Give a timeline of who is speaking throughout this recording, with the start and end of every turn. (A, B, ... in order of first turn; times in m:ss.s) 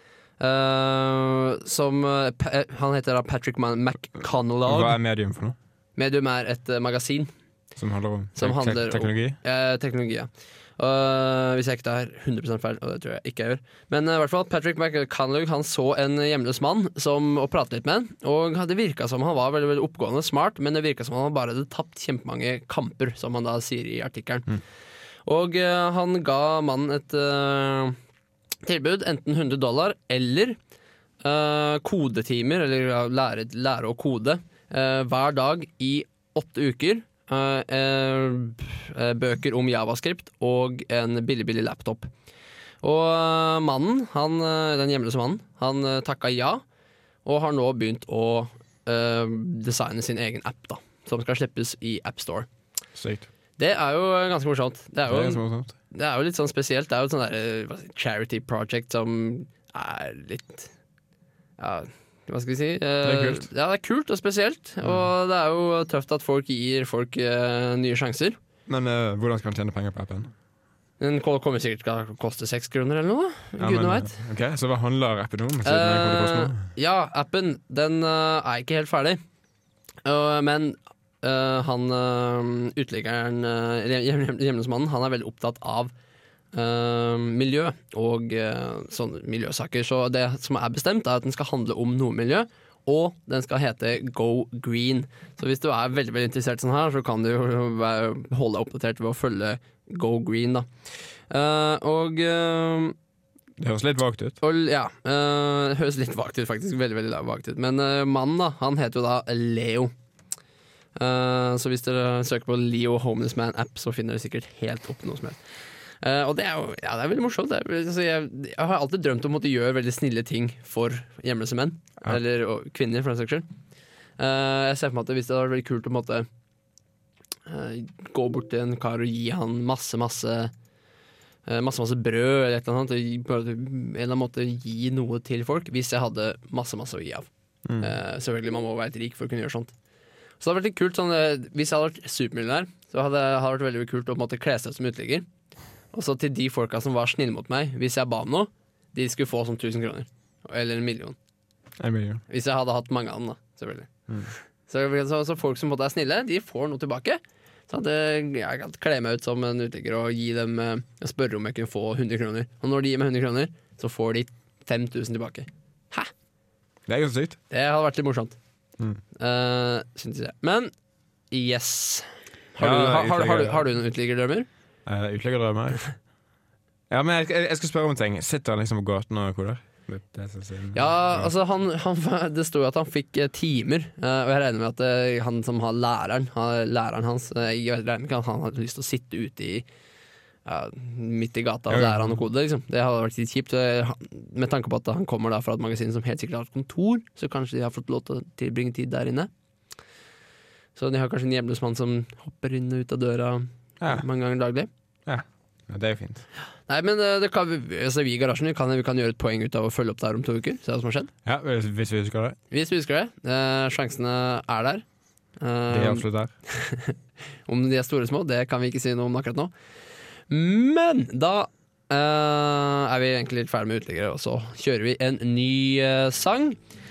0:00.4-0:05.0 A
0:04.6-0:05.6 B
0:06.0-0:07.3 A
0:07.8-0:09.4 B
0:08.4-0:24.5 A
0:25.2-0:28.0 A
0:28.6-0:30.6 A
0:31.2-0:42.1 A
0:42.8-0:46.6 A
0:47.2-0:52.5 A
0:52.9-0:53.3 B
0:53.6-1:00.7 A
0:55.1-0:55.7 B
1:01.6-1:08.4 A
1:03.0-1:03.5 B
1:04.8-1:05.1 B
1:08.7-1:10.3 B
1:11.0-1:14.1 A
1:13.6-1:16.6 B
1:15.6-1:19.2 A
1:20.0-1:25.9 A
1:26.5-1:40.7 A
1:41.3-1:42.9 A
1:43.6-1:44.4 B
1:44.4-1:49.9 A
1:51.0-1:55.4 A
1:56.0-2:03.4 A
2:04.2-2:06.3 A
2:07.5-2:10.5 A
2:11.5-2:17.3 A
2:17.6-2:17.9 B
2:17.8-2:19.7 A
2:20.4-2:25.2 A
2:25.9-2:31.2 A
2:31.8-2:32.2 B
2:32.3-2:33.9 A
2:34.7-2:46.1 A
2:46.9-2:47.4 B
2:47.5-2:48.4 A
2:49.2-2:50.7 A
2:51.3-2:54.5 A
2:52.6-2:53.7 B
2:54.8-2:55.8 B
2:56.9-3:01.3 B
3:00.7-3:09.6 A
3:10.4-3:19.3 A
3:11.7-3:12.2 B
3:20.8-3:24.7 A
3:23.8-3:24.1 B
3:25.0-3:26.2 B
3:26.7-3:31.1 A
3:31.2-3:32.4 B
3:32.5-3:34.8 A
3:35.4-3:36.9 A
3:35.7-3:36.3 B
3:37.5-3:39.5 A
3:40.3-3:46.6 A